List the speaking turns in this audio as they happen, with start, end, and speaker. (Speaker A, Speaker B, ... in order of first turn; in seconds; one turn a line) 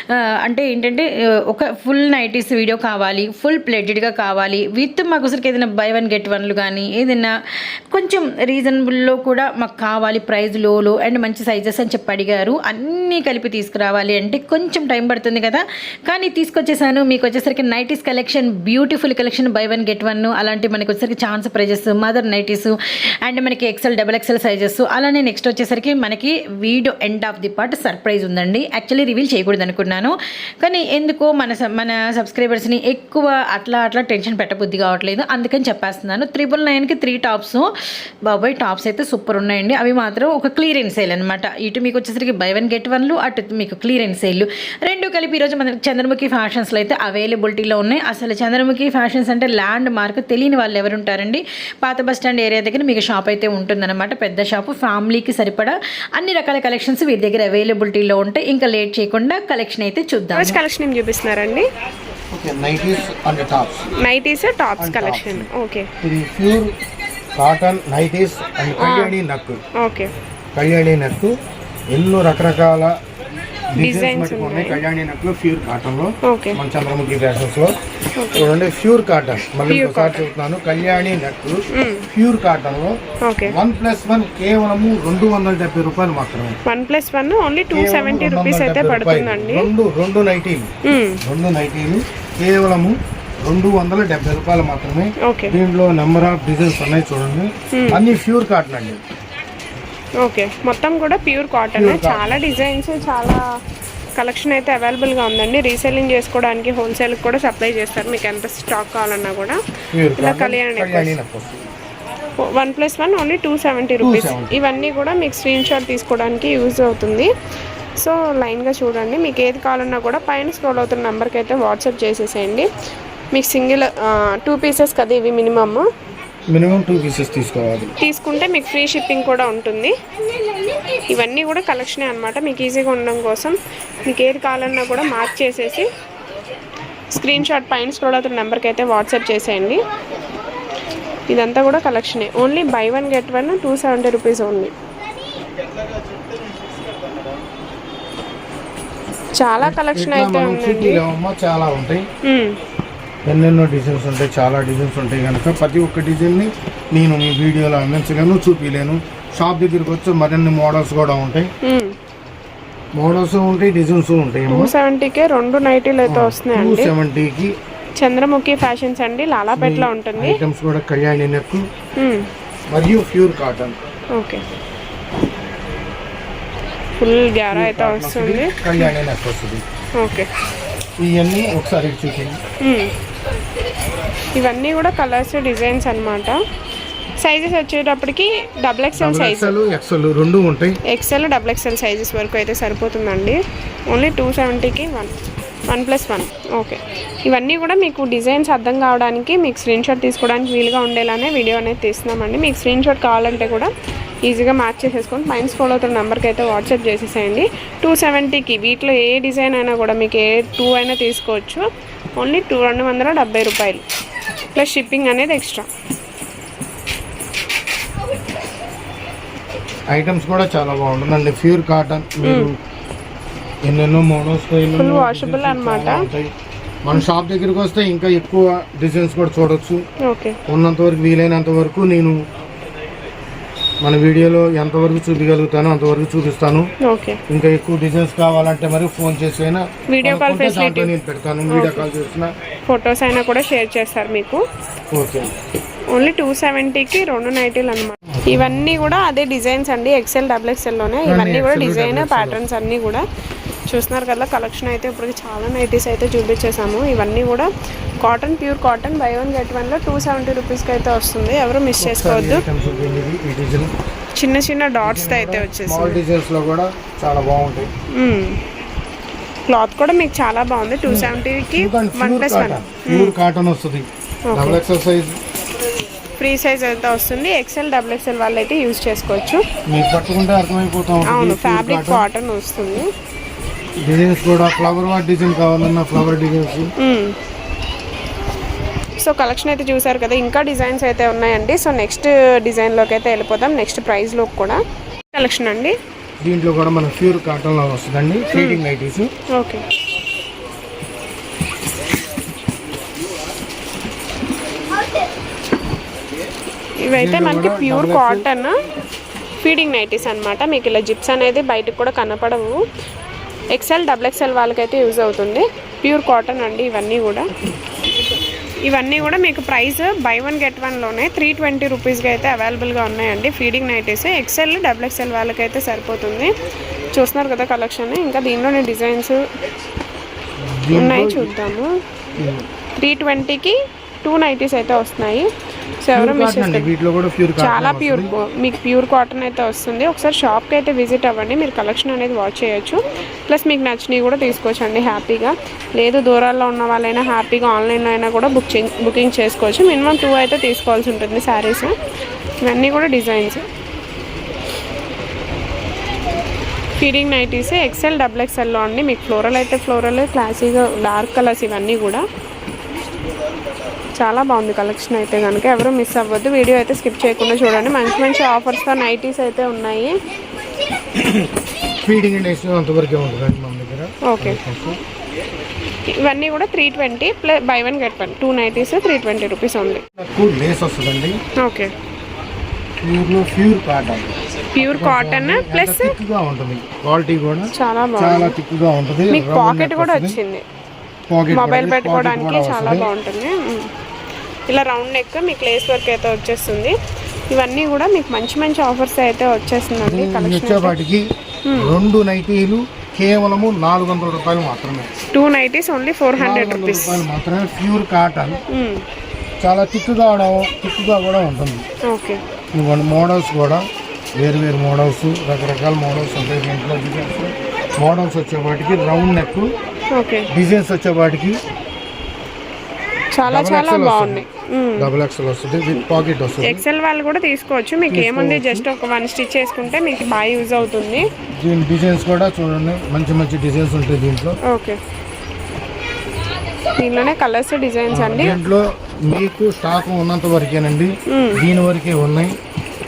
Speaker A: 0.4-7.3
Speaker A: 7.9-22.8
Speaker A: 23.3-37.7
Speaker A: 38.3-60.6
Speaker B: 60.3-61.7
Speaker C: 62.3-63.9
Speaker B: 64.0-65.9
Speaker C: 64.8-65.5
Speaker C: 66.0-66.7
Speaker C: 67.4-69.6
Speaker B: 68.8-69.2
Speaker B: 69.8-70.1
Speaker C: 70.5-71.3
Speaker C: 71.9-73.0
Speaker C: 73.7-77.7
Speaker B: 73.8-74.8
Speaker B: 76.3-76.6
Speaker B: 78.2-78.5
Speaker C: 78.3-81.6
Speaker B: 79.7-80.3
Speaker B: 81.7-82.0
Speaker C: 82.1-86.6
Speaker B: 83.3-83.5
Speaker B: 86.7-89.7
Speaker C: 87.7-90.7
Speaker B: 90.9-91.2
Speaker C: 91.2-99.0
Speaker B: 95.3-95.5
Speaker B: 97.7-98.0
Speaker B: 100.2-103.4
Speaker C: 101.8-102.3
Speaker B: 104.2-109.6
Speaker C: 109.9-111.7
Speaker B: 110.2-111.2
Speaker B: 112.4-117.3
Speaker C: 114.0-114.5
Speaker B: 118.0-122.7
Speaker B: 123.3-125.9
Speaker C: 126.5-127.9
Speaker B: 128.0-129.9
Speaker B: 131.1-135.9
Speaker B: 137.1-139.8
Speaker B: 141.3-144.7
Speaker B: 149.4-151.0
Speaker C: 149.6-152.0
Speaker B: 152.3-152.6
Speaker C: 153.3-161.5
Speaker B: 161.7-161.9
Speaker C: 163.0-164.7
Speaker B: 164.5-166.9
Speaker C: 166.1-167.5
Speaker B: 168.0-170.4
Speaker C: 169.5-171.7
Speaker B: 172.0-172.3
Speaker C: 172.7-173.8
Speaker B: 174.2-174.4
Speaker B: 177.0-178.9
Speaker C: 177.5-179.6
Speaker B: 180.0-180.3
Speaker C: 181.0-182.4
Speaker B: 182.6-182.9
Speaker B: 184.4-186.4
Speaker B: 187.2-189.6
Speaker C: 188.9-190.8
Speaker B: 190.9-193.4
Speaker B: 193.9-195.1
Speaker B: 195.7-203.7
Speaker B: 204.2-211.7
Speaker B: 212.2-213.8
Speaker B: 214.6-215.7
Speaker C: 219.9-222.5
Speaker B: 222.2-222.5
Speaker C: 223.7-226.3
Speaker B: 224.8-226.1
Speaker C: 226.8-229.8
Speaker B: 230.1-230.4
Speaker C: 230.5-232.2
Speaker C: 233.8-236.7
Speaker B: 236.8-237.2
Speaker C: 237.3-242.3
Speaker B: 239.9-240.9
Speaker B: 241.5-241.9
Speaker B: 242.7-244.4
Speaker C: 244.9-245.3
Speaker B: 245.9-253.0
Speaker C: 248.2-248.7
Speaker C: 251.1-252.4
Speaker B: 253.7-257.5
Speaker B: 258.0-262.4
Speaker C: 261.8-263.7
Speaker B: 264.2-266.0
Speaker C: 264.8-267.7
Speaker B: 268.0-268.4
Speaker B: 269.5-273.1
Speaker C: 270.9-275.2
Speaker B: 274.3-274.6
Speaker B: 276.2-279.4
Speaker C: 279.7-282.1
Speaker B: 281.1-282.9
Speaker C: 283.8-286.7
Speaker B: 286.8-287.1
Speaker B: 289.0-294.6
Speaker B: 295.1-295.8
Speaker C: 296.2-299.1
Speaker B: 298.3-298.6
Speaker B: 299.3-299.6
Speaker B: 306.8-308.6
Speaker C: 306.9-308.3
Speaker B: 309.4-312.6
Speaker B: 313.5-317.3
Speaker B: 318.7-326.3
Speaker B: 326.9-329.2
Speaker C: 330.4-331.3
Speaker B: 330.7-331.7
Speaker C: 332.2-332.5
Speaker B: 332.8-335.3
Speaker B: 335.8-336.7
Speaker C: 335.9-338.1
Speaker B: 337.4-351.7
Speaker B: 352.4-353.5
Speaker B: 356.8-362.0
Speaker B: 364.0-369.9
Speaker C: 371.8-374.8
Speaker B: 374.1-374.4
Speaker B: 376.0-379.8
Speaker C: 380.0-381.2
Speaker B: 381.4-381.7
Speaker C: 382.8-390.2
Speaker B: 384.6-385.9
Speaker B: 387.5-388.4
Speaker B: 389.1-390.4
Speaker C: 391.1-392.9
Speaker B: 391.3-393.7
Speaker B: 394.5-396.8
Speaker B: 397.3-400.8
Speaker C: 399.8-404.9
Speaker B: 401.5-401.8
Speaker B: 405.1-407.1
Speaker C: 406.2-408.4
Speaker B: 408.5-408.8
Speaker C: 409.4-411.7
Speaker B: 411.9-412.2
Speaker C: 412.5-413.6
Speaker C: 414.2-419.5
Speaker B: 419.9-420.3
Speaker C: 420.3-421.4
Speaker B: 423.2-424.9
Speaker C: 423.3-424.2
Speaker C: 424.8-426.6
Speaker B: 426.4-431.1
Speaker C: 427.9-428.7
Speaker C: 431.3-434.4
Speaker B: 434.5-434.8
Speaker B: 436.8-438.4
Speaker C: 437.9-442.3
Speaker B: 441.1-441.4